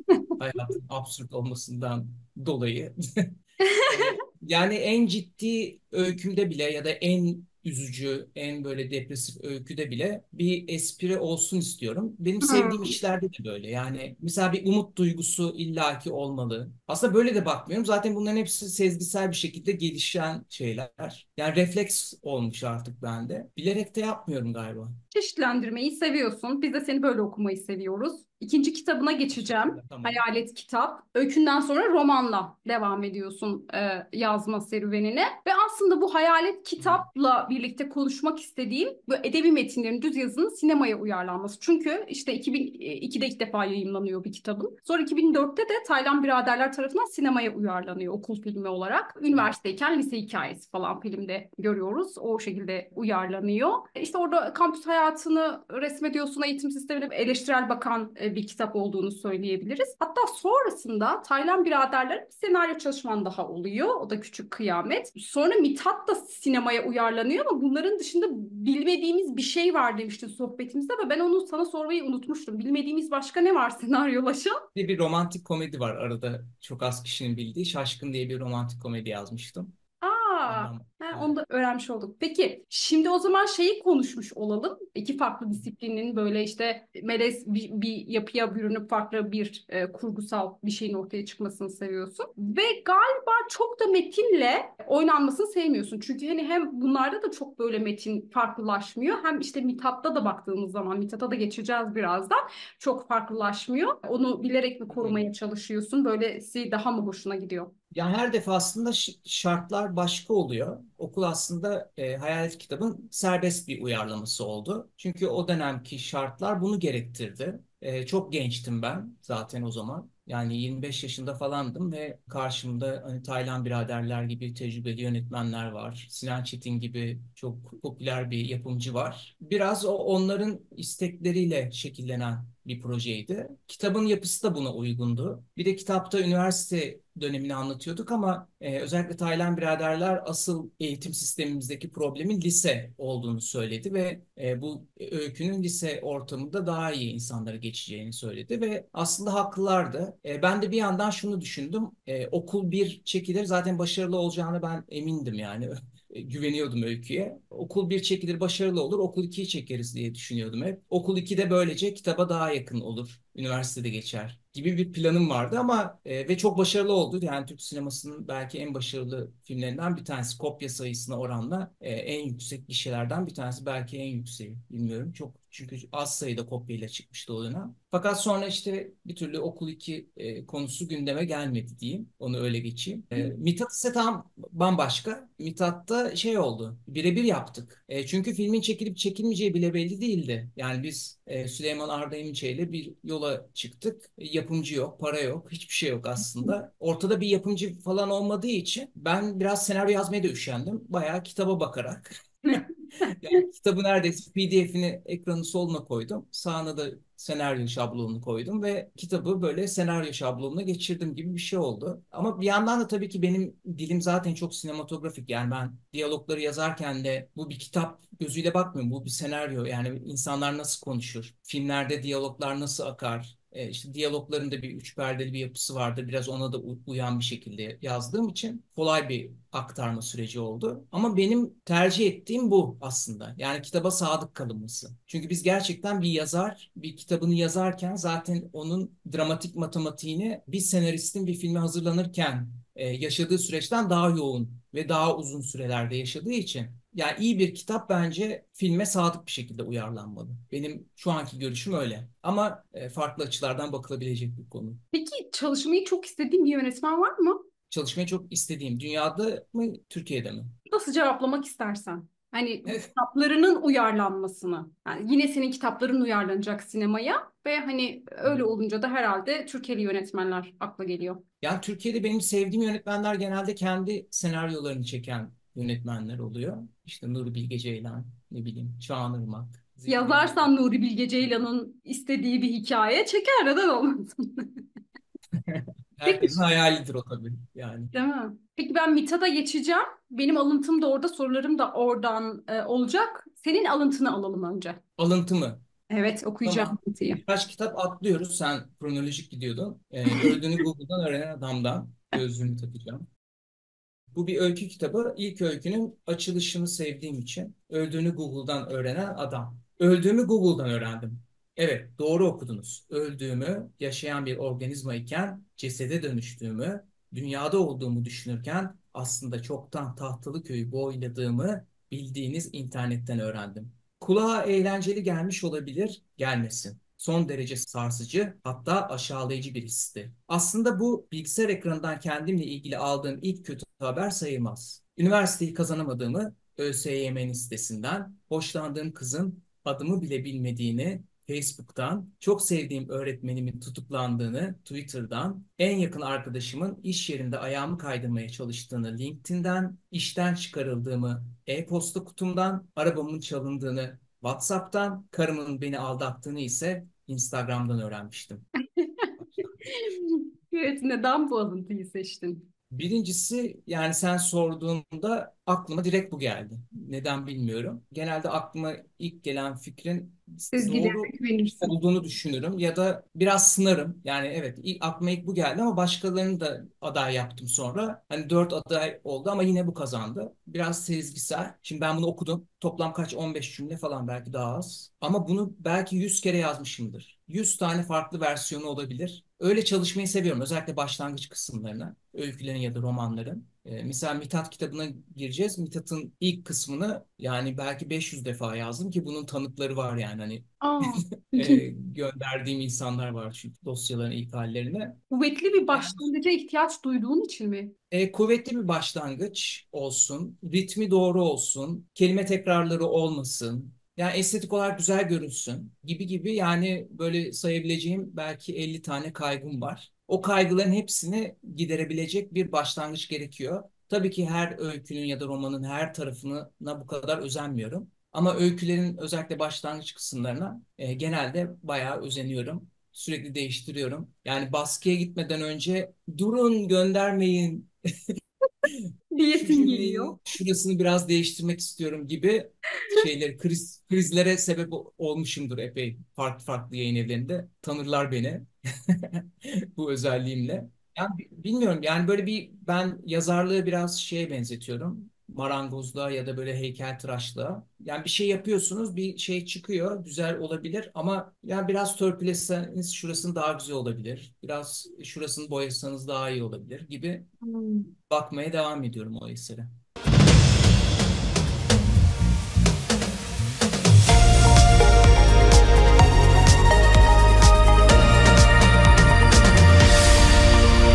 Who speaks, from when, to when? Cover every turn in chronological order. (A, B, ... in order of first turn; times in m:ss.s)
0:00.4-0:03.3 A
0:03.6-0:04.2 B
0:03.9-0:25.0 A
0:12.4-0:13.0 B
0:25.1-1:14.6 B
0:29.3-0:30.2 A
0:36.8-0:37.0 A
1:14.8-1:19.8 A
1:20.0-1:47.7 B
1:20.5-1:21.4 A
1:44.9-1:45.3 A
1:47.9-4:14.8 A
3:22.5-3:23.1 B
4:14.9-4:17.4 B
4:17.7-4:20.5 A
4:20.7-4:31.2 B
4:22.7-4:22.9 A
4:31.4-4:40.6 A
4:39.9-4:44.6 B
4:45.4-4:47.9 A
4:46.1-4:46.4 B
4:47.9-4:54.8 B
4:55.0-4:55.6 A
4:55.9-4:57.2 B
4:56.4-5:03.1 A
5:00.1-5:00.4 B
5:04.1-5:58.5 A
5:58.8-5:59.1 B
5:59.2-5:59.8 A
5:59.7-6:02.5 B
6:02.7-6:45.0 A
6:10.5-6:11.7 B
6:40.6-6:41.6 B
6:45.1-6:47.7 B
6:45.7-6:46.0 A
6:47.9-7:17.7 A
7:18.6-7:47.3 A
7:19.1-7:20.2 B
7:47.4-7:47.9 B
7:48.1-7:49.7 A